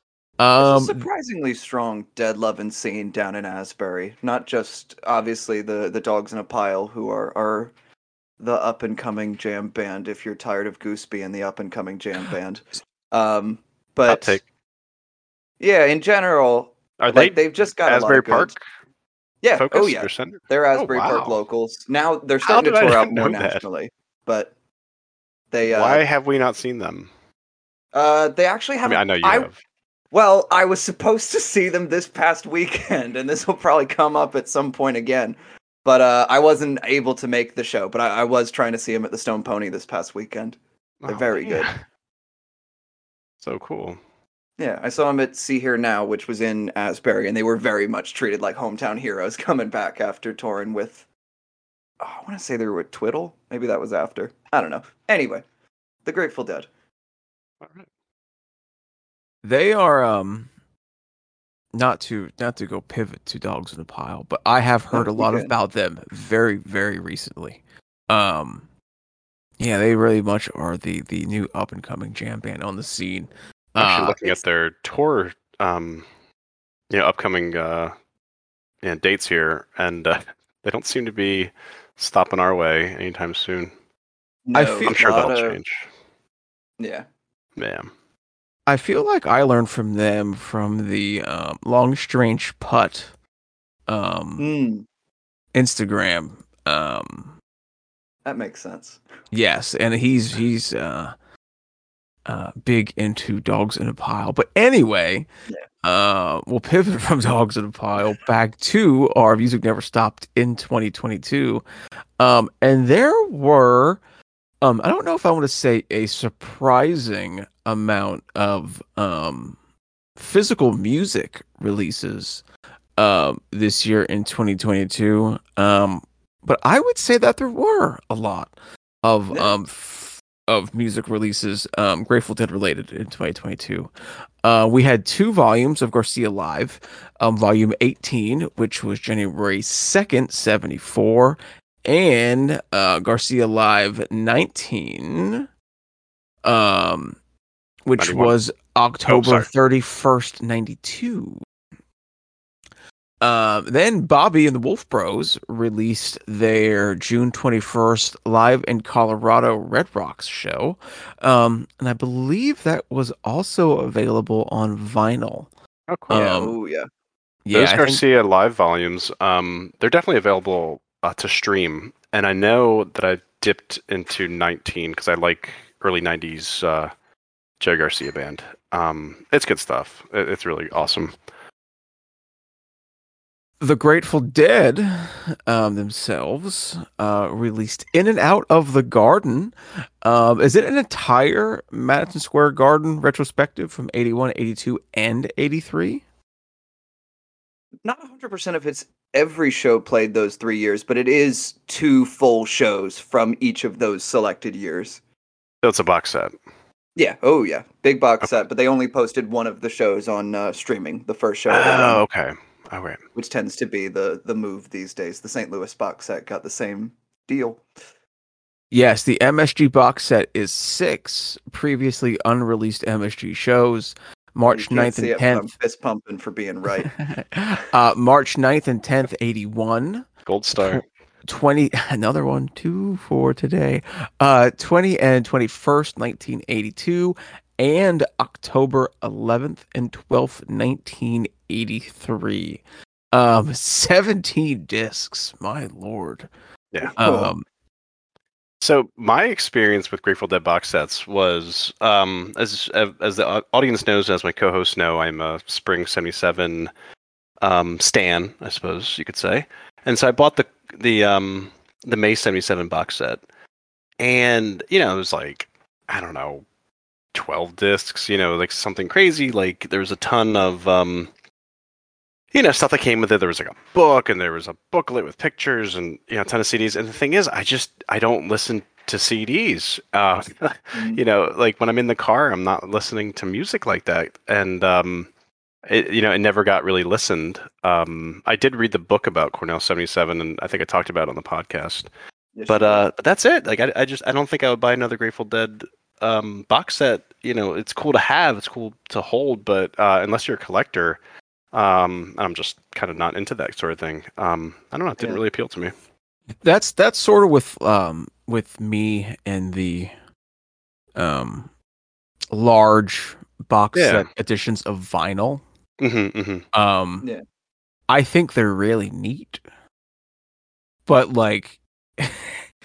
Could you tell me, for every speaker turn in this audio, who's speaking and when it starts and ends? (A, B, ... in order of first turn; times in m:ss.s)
0:00.4-0:01.0 A
0:00.6-0:07.7 B
0:08.4-0:14.4 B
0:14.1-0:14.4 C
0:15.6-0:18.5 B
0:17.0-0:18.6 C
0:19.4-0:24.5 B
0:19.5-0:21.4 C
0:22.4-0:23.6 C
0:25.5-0:26.0 B
0:25.6-0:27.1 C
0:27.9-0:29.5 B
0:28.8-0:29.6 C
0:30.1-0:41.7 B
0:41.0-0:41.8 C
0:43.4-0:44.0 C
0:44.6-0:51.0 B
0:52.0-0:55.4 B
0:56.0-0:56.7 B
0:57.6-0:57.9 C
0:59.4-1:00.5 A
1:01.7-1:08.6 A
1:04.9-1:05.5 B
1:09.6-1:14.2 A
1:13.8-1:16.0 C
1:16.9-1:17.9 C
1:18.8-1:23.7 C
1:24.5-1:25.6 B
1:24.5-1:24.9 A
1:24.8-1:25.8 C
1:26.8-1:27.0 B
1:27.6-1:27.9 C
1:28.7-1:33.1 A
1:33.9-1:34.5 A
1:34.4-1:34.8 B
1:35.5-1:37.3 A
1:38.2-1:39.0 B
1:39.3-1:41.1 A
1:42.2-1:45.3 A
1:45.8-1:51.6 A
1:52.2-1:54.0 A
1:54.6-1:59.6 A
2:00.2-2:02.4 A
2:03.0-2:13.9 A
2:14.4-2:25.5 A
2:26.4-2:27.2 A
2:27.8-2:31.4 A
2:28.0-2:28.3 C
2:29.1-2:29.4 C
2:33.2-2:45.5 A
2:45.9-2:46.1 C
2:46.1-2:46.6 A
2:46.1-2:46.9 B
2:47.4-2:48.0 A
2:47.5-2:56.9 C
2:57.6-3:01.1 C
3:03.6-3:16.0 A
3:17.8-3:25.0 B
3:25.6-3:26.3 C
3:27.0-3:32.0 B
3:31.5-3:33.0 C
3:33.2-3:37.6 B
3:38.7-3:45.5 A
3:44.5-3:46.9 B
3:46.8-4:06.3 A
3:50.2-3:50.8 C
4:06.9-4:07.3 B
4:07.0-4:07.4 A
4:08.6-4:16.7 C
4:17.4-4:23.2 C
4:24.0-4:26.4 C
4:27.1-4:31.1 C
4:32.3-4:45.1 C
4:40.7-4:41.0 B
4:45.7-4:51.9 C
4:52.3-4:52.8 B
4:52.5-5:01.0 C
5:01.5-5:05.7 C
5:06.4-5:09.9 A
5:11.0-5:11.5 A
5:12.3-5:15.4 A
5:13.7-5:14.1 C
5:15.8-5:16.4 C
5:16.5-5:17.1 A
5:17.9-5:19.4 A
5:20.9-5:22.4 A